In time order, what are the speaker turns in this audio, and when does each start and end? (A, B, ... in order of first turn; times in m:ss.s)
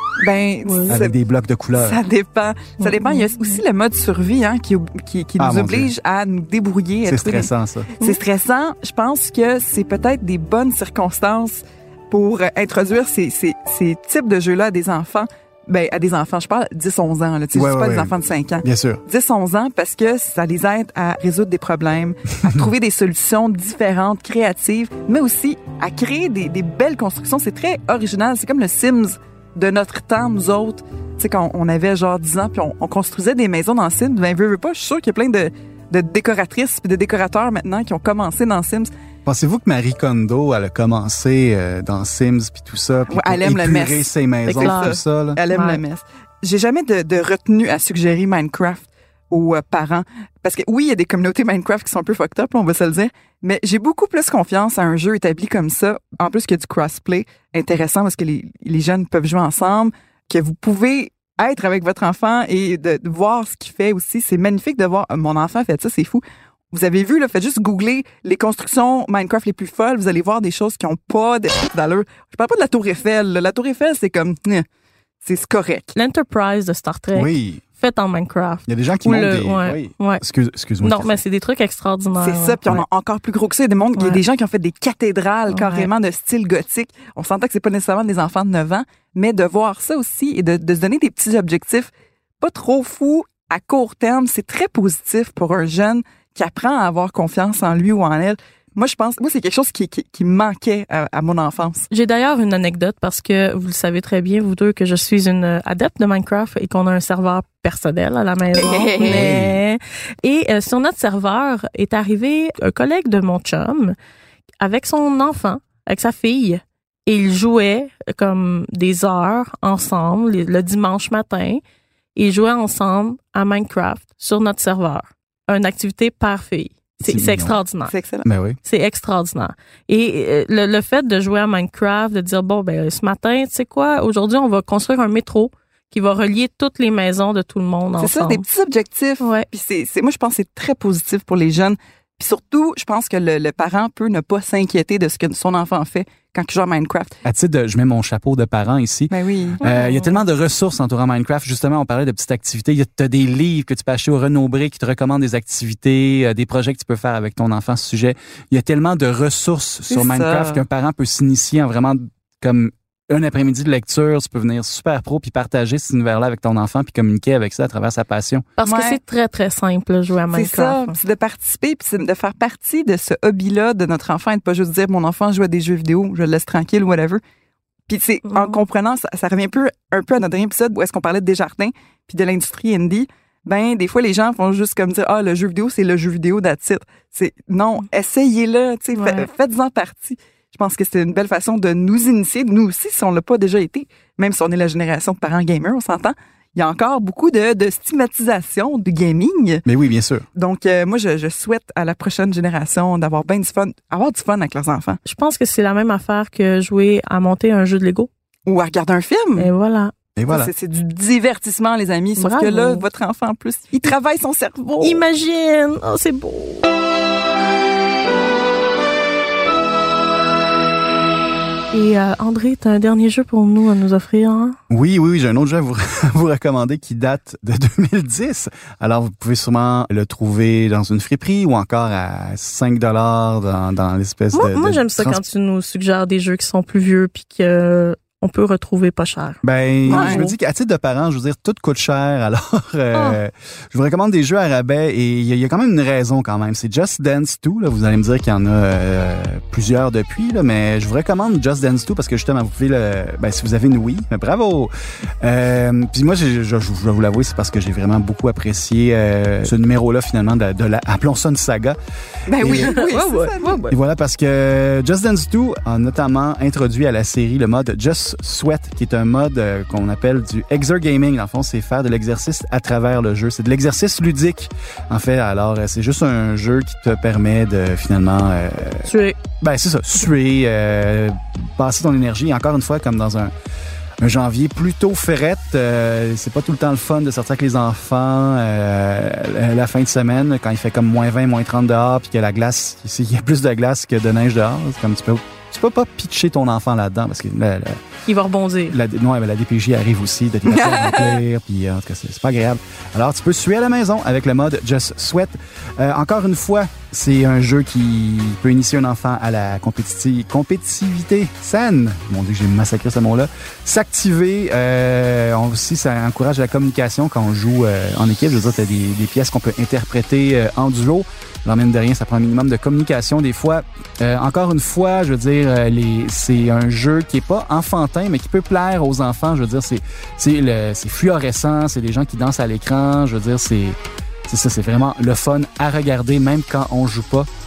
0:00.2-0:01.1 A
0:00.6-0:01.0 B
0:00.9-0:02.0 C
0:01.7-0:38.9 A
0:02.8-0:03.6 B
0:05.4-0:05.9 C
0:07.0-0:07.9 C
0:17.5-0:19.0 C
0:39.2-0:45.4 C
0:43.1-1:14.6 A
0:44.6-0:44.9 B
0:45.5-0:45.8 B
1:15.2-1:15.9 A
1:15.9-1:20.2 B
1:17.1-1:17.6 C
1:18.7-1:21.2 C
1:20.8-1:22.6 B
1:22.2-1:41.9 A
1:25.5-1:25.9 B
1:41.9-1:53.9 B
1:48.5-1:49.3 A
1:49.0-1:49.6 C
1:54.6-2:01.6 B
2:02.2-2:07.9 B
2:07.1-2:07.6 C
2:07.9-2:08.3 A
2:08.2-2:08.6 C
2:08.6-2:18.4 B
2:18.0-2:27.2 A
2:19.2-2:19.5 B
2:27.2-2:48.5 C
2:29.1-2:29.6 A
2:29.6-2:30.2 B
2:39.9-2:40.6 A
2:48.6-2:51.0 B
2:48.6-2:49.0 A
2:50.3-2:57.2 A
2:57.9-3:19.6 A
2:58.3-2:58.6 B
3:08.9-3:09.3 B
3:19.6-3:20.2 C
3:20.3-3:25.0 A
3:25.0-3:28.1 B
3:28.4-3:29.5 A
3:29.4-3:29.9 B
3:30.2-3:30.5 C
3:30.3-3:35.0 A
3:32.2-3:32.8 B
3:34.8-3:36.7 B
3:41.7-3:44.6 B
3:44.7-3:55.2 C
3:54.3-4:00.3 B
3:59.4-4:14.7 C
3:59.9-4:00.2 A
4:02.9-4:03.2 B
4:15.2-4:21.8 C
4:22.3-4:23.6 A
4:22.4-4:22.8 C
4:22.4-4:23.8 B
4:23.7-4:38.9 C
4:38.8-4:39.2 B
4:39.4-4:43.3 C
4:44.0-4:57.8 C
4:58.0-4:58.8 B
4:58.7-5:37.3 C
5:00.5-5:01.2 A